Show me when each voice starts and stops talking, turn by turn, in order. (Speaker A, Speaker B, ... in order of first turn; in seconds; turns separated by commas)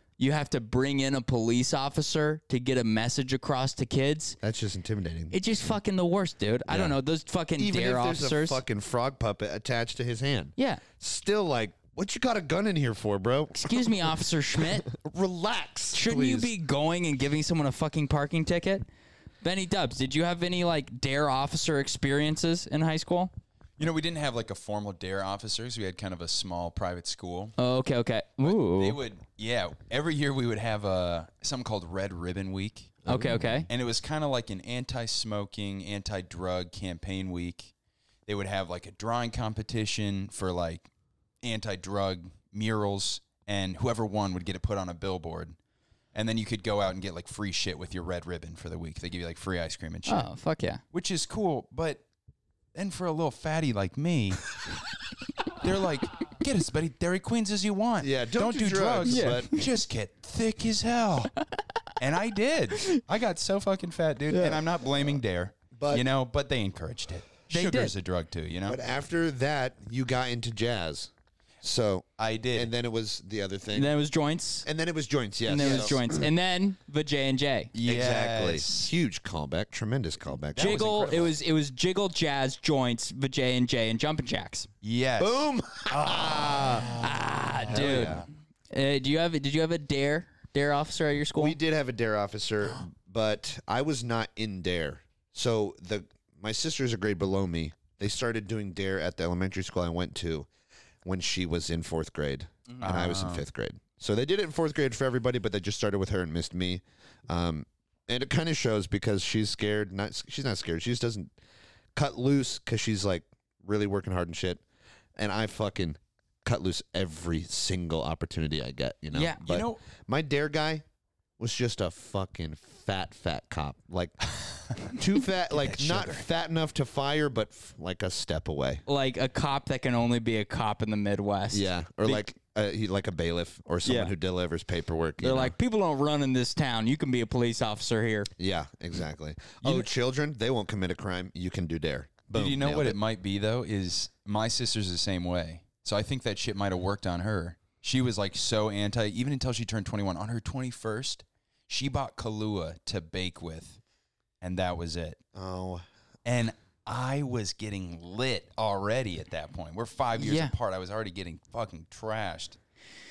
Speaker A: 0.2-4.4, Speaker B: 4.4-5.3, Speaker A: 5.3-8.6, Speaker B: 6.7-6.9, Speaker B: 7.6-16.5, Speaker A: 10.6-10.8, Speaker A: 13.5-14.9, Speaker A: 15.9-18.8, Speaker A: 19.4-23.3, Speaker C: 23.8-27.6, Speaker A: 27.6-29.0, Speaker C: 28.4-33.0, Speaker B: 33.0-33.7, Speaker A: 33.1-33.7, Speaker C: 33.7-37.7, Speaker C: 38.2-40.9, Speaker C: 41.4-45.5, Speaker C: 46.1-50.3, Speaker A: 50.1-50.8, Speaker C: 50.9-52.0, Speaker C: 52.7-54.5, Speaker C: 55.6-61.3, Speaker B: 58.0-59.5, Speaker A: 59.0-59.5, Speaker C: 62.0-68.8, Speaker A: 64.3-64.6, Speaker B: 65.7-66.0, Speaker A: 67.5-67.9, Speaker B: 68.7-71.1, Speaker B: 71.6-73.9, Speaker C: 72.2-72.7, Speaker A: 73.7-74.7, Speaker B: 74.6-76.0, Speaker A: 75.5-77.7, Speaker C: 75.6-76.0, Speaker C: 77.7-78.9, Speaker B: 77.8-80.9, Speaker C: 80.5-81.3, Speaker A: 80.5-84.7, Speaker C: 84.8-88.2, Speaker B: 85.2-86.9, Speaker A: 86.9-91.6, Speaker B: 87.7-88.2, Speaker B: 91.4-100.5, Speaker B: 101.0-111.3, Speaker C: 102.8-103.4, Speaker B: 111.9-114.6, Speaker B: 115.2-120.8, Speaker A: 119.1-119.4, Speaker C: 119.4-119.8, Speaker B: 121.4-124.2, Speaker B: 124.8-128.8, Speaker A: 128.9-132.2, Speaker B: 131.5-135.5, Speaker A: 133.8-134.1, Speaker A: 135.2-138.3, Speaker B: 138.4-143.0, Speaker C: 142.3-153.8, Speaker C: 154.4-155.2, Speaker B: 155.3-155.8, Speaker C: 156.2-162.6, Speaker A: 160.2-160.5